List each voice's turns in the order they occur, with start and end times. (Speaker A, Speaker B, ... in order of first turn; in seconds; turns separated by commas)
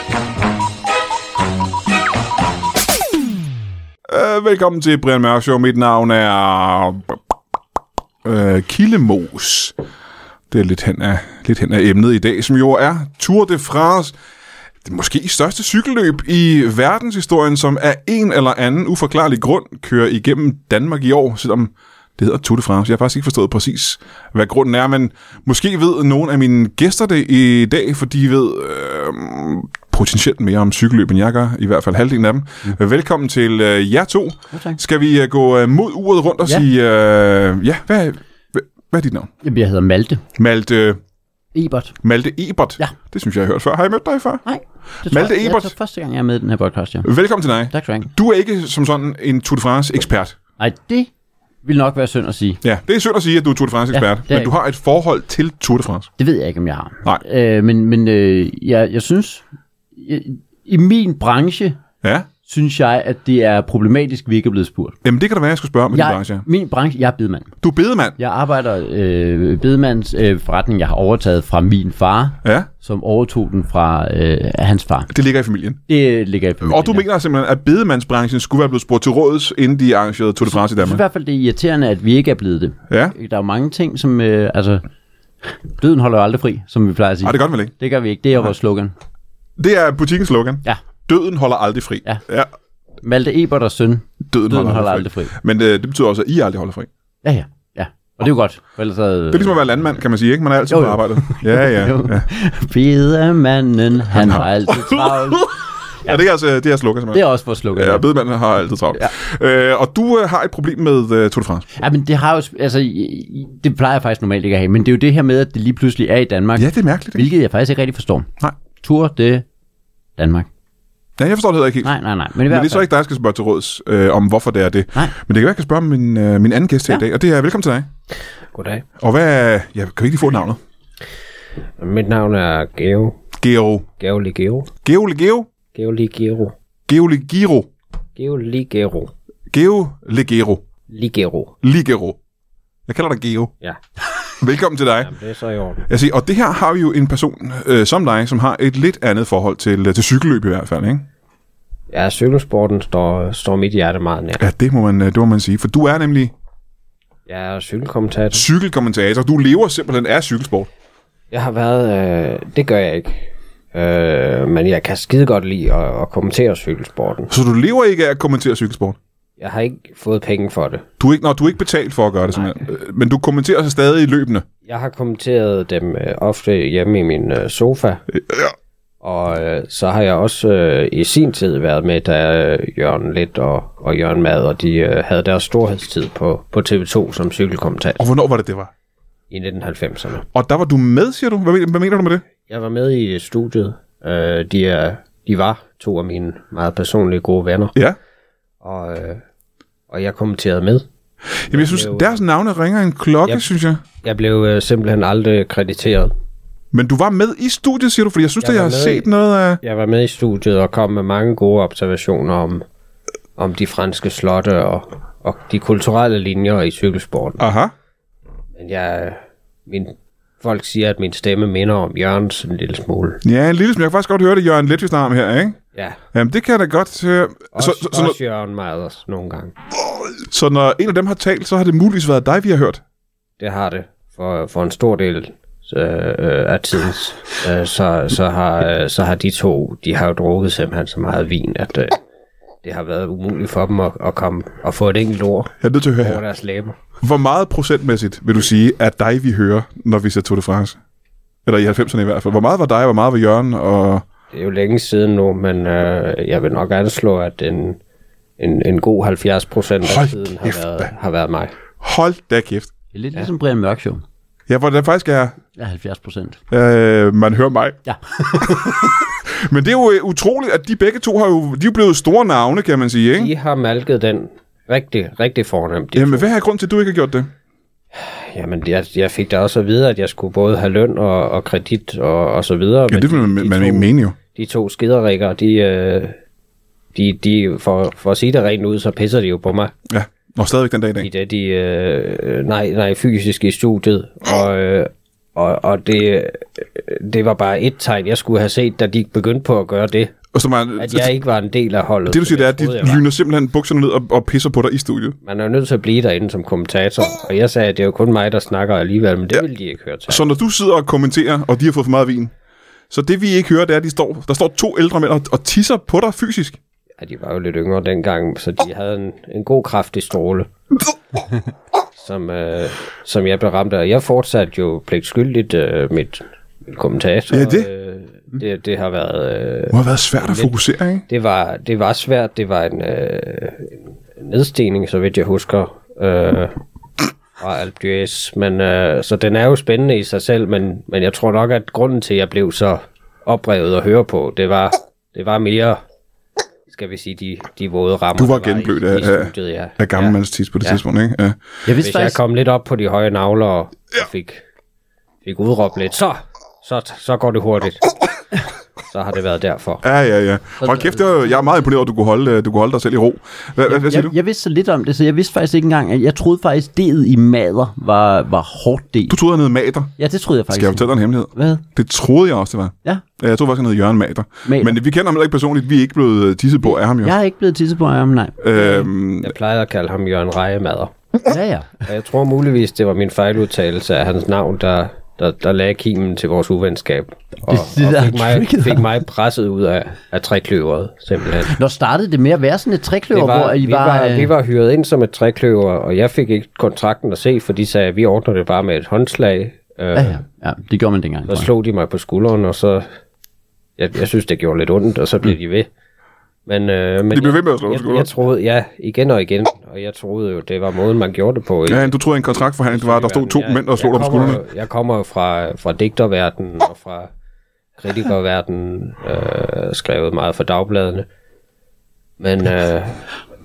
Speaker A: 4.1-7.3, Speaker A: 8.2-9.8, Speaker A: 10.5-14.2, Speaker A: 14.8-39.3, Speaker B: 34.5-34.8, Speaker B: 39.4-40.2, Speaker A: 40.4-41.0, Speaker B: 41.5-42.0, Speaker A: 42.0-44.4, Speaker B: 44.5-47.1, Speaker A: 45.1-45.7, Speaker A: 47.0-50.4, Speaker B: 47.7-48.1, Speaker B: 50.6-51.1, Speaker B: 51.6-52.6, Speaker A: 52.6-56.1, Speaker B: 53.9-54.5, Speaker B: 56.2-59.4, Speaker B: 60.0-61.8, Speaker A: 62.0-62.3, Speaker B: 62.5-65.0, Speaker A: 65.0-66.5, Speaker B: 65.9-67.5, Speaker A: 67.6-68.2, Speaker B: 68.2-75.1, Speaker A: 72.4-72.7, Speaker A: 75.1-75.8, Speaker B: 75.9-77.1, Speaker A: 76.6-81.0, Speaker B: 80.4-84.8, Speaker A: 82.9-83.2, Speaker B: 85.4-88.9, Speaker A: 87.2-87.7, Speaker A: 89.6-92.5, Speaker B: 93.0-95.3, Speaker A: 94.3-96.9, Speaker B: 97.2-99.6, Speaker A: 99.3-102.3, Speaker B: 100.7-105.5, Speaker A: 104.2-107.2, Speaker B: 107.1-108.1, Speaker A: 107.8-111.7, Speaker B: 111.7-119.5, Speaker A: 116.6-117.3, Speaker B: 120.2-120.5, Speaker A: 121.2-122.0, Speaker B: 121.8-122.9, Speaker A: 122.5-127.9, Speaker C: 128.5-128.8, Speaker A: 129.0-130.6, Speaker C: 131.8-133.2, Speaker A: 133.4-133.9, Speaker C: 134.0-134.7, Speaker A: 134.8-135.5, Speaker C: 135.7-136.5, Speaker A: 136.9-137.7, Speaker C: 138.2-139.1, Speaker A: 139.5-140.6, Speaker C: 140.9-141.5, Speaker A: 141.6-142.2, Speaker A: 142.9-143.5, Speaker A: 144.4-145.1, Speaker C: 145.0-145.9, Speaker A: 145.9-151.1, Speaker C: 151.9-154.4, Speaker A: 154.4-156.3, Speaker C: 157.3-158.5, Speaker A: 158.3-160.7, Speaker C: 161.3-167.3, Speaker A: 167.3-169.0, Speaker C: 169.4-170.8, Speaker A: 171.0-174.5, Speaker C: 174.7-178.0, Speaker A: 178.2-178.5, Speaker C: 179.0-188.0, Speaker A: 188.0-188.7, Speaker C: 189.3-190.3, Speaker A: 190.3-192.2, Speaker C: 192.5-197.8, Speaker C: 198.6-199.2, Speaker C: 199.9-200.9, Speaker A: 201.4-203.8, Speaker C: 201.5-202.2, Speaker C: 204.0-206.1, Speaker A: 206.7-209.6, Speaker C: 208.4-209.1, Speaker C: 209.6-212.6, Speaker C: 213.4-217.4, Speaker A: 217.4-217.7, Speaker C: 218.6-223.2, Speaker A: 223.2-225.6, Speaker A: 226.1-228.2, Speaker C: 227.5-229.5, Speaker A: 230.2-232.8, Speaker C: 233.4-242.0, Speaker C: 242.6-246.8, Speaker A: 245.6-246.2, Speaker A: 247.0-250.8, Speaker A: 251.5-254.1, Speaker C: 254.3-257.8, Speaker C: 258.4-261.5, Speaker A: 259.8-260.9, Speaker A: 261.8-262.7, Speaker B: 262.9-264.0, Speaker A: 264.5-265.4, Speaker B: 265.6-266.4, Speaker A: 266.5-267.8, Speaker B: 267.9-269.0, Speaker A: 268.4-273.3, Speaker C: 273.1-276.3, Speaker A: 275.9-277.3, Speaker C: 277.9-286.2, Speaker A: 282.9-284.1, Speaker C: 286.9-289.7, Speaker A: 289.9-291.1, Speaker C: 291.0-300.1, Speaker A: 300.3-301.1, Speaker C: 300.8-303.0, Speaker A: 302.1-305.2, Speaker C: 305.2-310.2, Speaker A: 310.1-312.3, Speaker A: 312.9-316.6, Speaker C: 317.0-320.5, Speaker C: 322.0-330.6, Speaker A: 327.3-327.7, Speaker A: 329.7-331.0, Speaker C: 331.1-336.6, Speaker C: 337.4-345.8, Speaker C: 346.7-350.8, Speaker A: 348.2-351.4, Speaker B: 351.7-352.2, Speaker C: 351.8-354.4, Speaker C: 355.2-357.9, Speaker C: 358.9-359.8, Speaker A: 359.8-364.1, Speaker B: 360.6-361.0, Speaker B: 363.7-369.2, Speaker A: 369.1-369.9, Speaker B: 370.0-371.6, Speaker A: 370.5-377.1, Speaker B: 374.5-374.8, Speaker B: 376.7-378.4, Speaker A: 378.4-379.3, Speaker C: 378.6-380.9, Speaker B: 381.2-381.8, Speaker C: 381.8-391.6, Speaker B: 387.5-388.9, Speaker B: 391.5-394.3, Speaker C: 393.1-400.2, Speaker B: 399.9-401.5, Speaker C: 401.3-402.9, Speaker C: 403.8-405.7, Speaker C: 406.5-411.9, Speaker A: 407.1-408.1, Speaker A: 411.7-414.4, Speaker C: 412.7-417.1, Speaker C: 417.8-421.1, Speaker C: 422.2-423.1